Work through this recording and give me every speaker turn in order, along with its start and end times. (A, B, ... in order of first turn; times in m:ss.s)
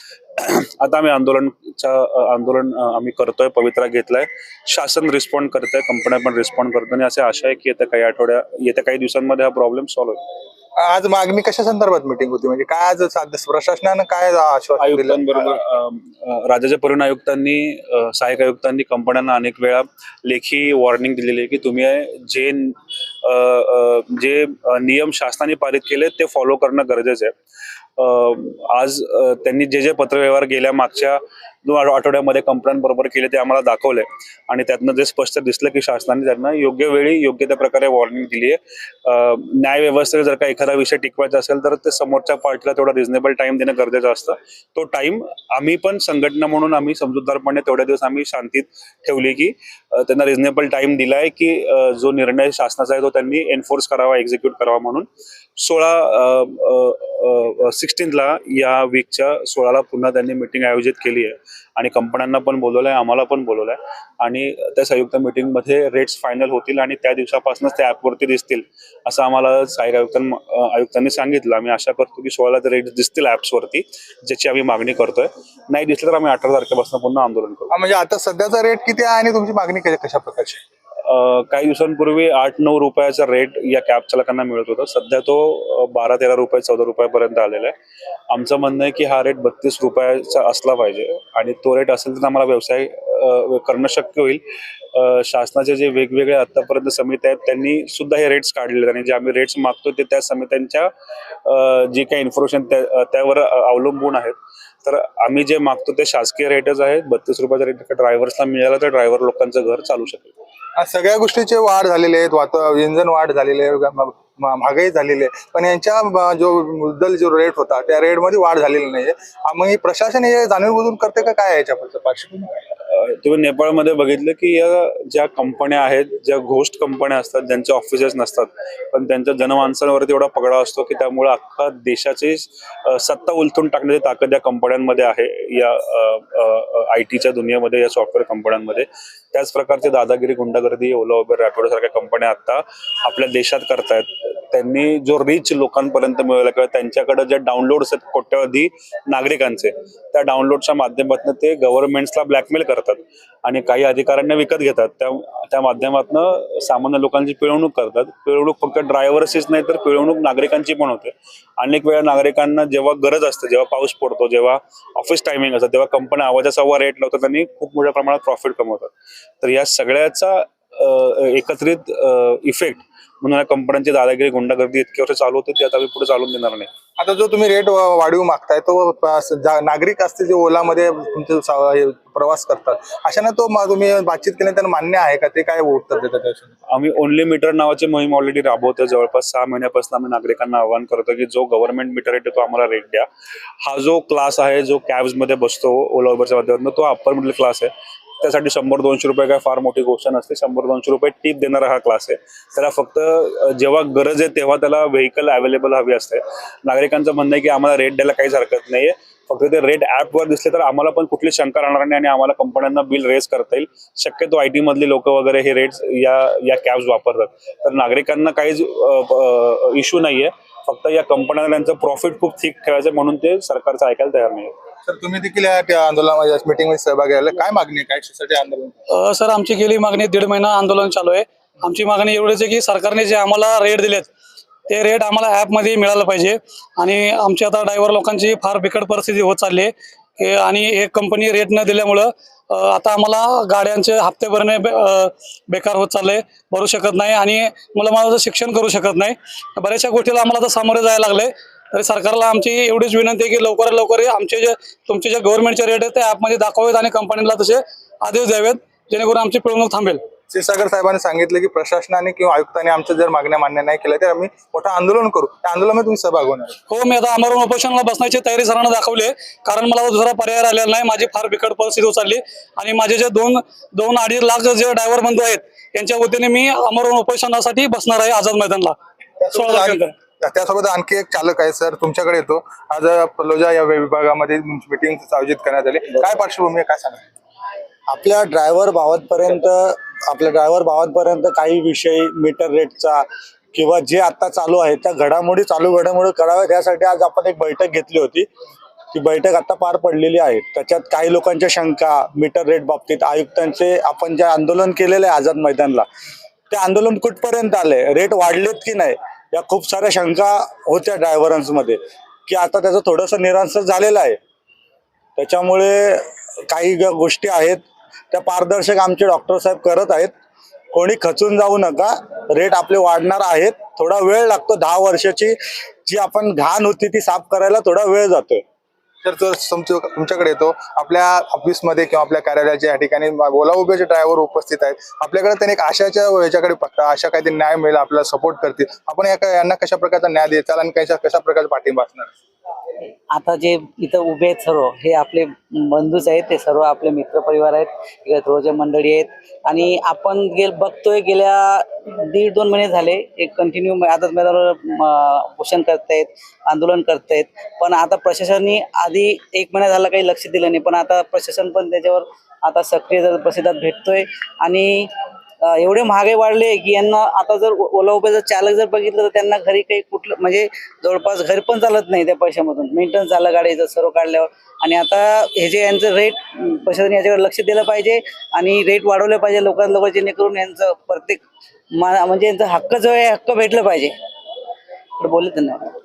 0:00.4-0:10.2 A
0:10.8-0:15.6 B
0:14.8-0:27.3 A
0:28.0-0:55.1 A
0:55.6-1:17.7 A
1:17.7-1:20.6 B
1:21.0-1:27.7 A
1:28.3-1:34.4 A
1:34.9-1:40.9 A
1:41.4-1:50.3 A
1:50.8-2:02.5 B
2:02.9-2:56.7 A
2:57.0-3:06.5 B
3:06.7-3:13.0 A
3:13.6-3:44.5 A
3:44.8-3:48.7 B
3:48.9-3:54.1 C
3:54.7-4:20.0 C
4:20.3-4:26.6 B
4:26.7-4:38.8 C
4:39.2-4:47.0 B
4:39.3-4:39.9 C
4:47.9-4:58.3 D
4:58.9-5:05.8 D
5:06.5-5:14.2 D
5:15.2-5:20.1 D
5:20.7-5:28.4 D
5:29.0-5:42.1 B
5:43.1-6:04.9 E
6:05.4-6:23.9 E
6:25.0-6:25.7 E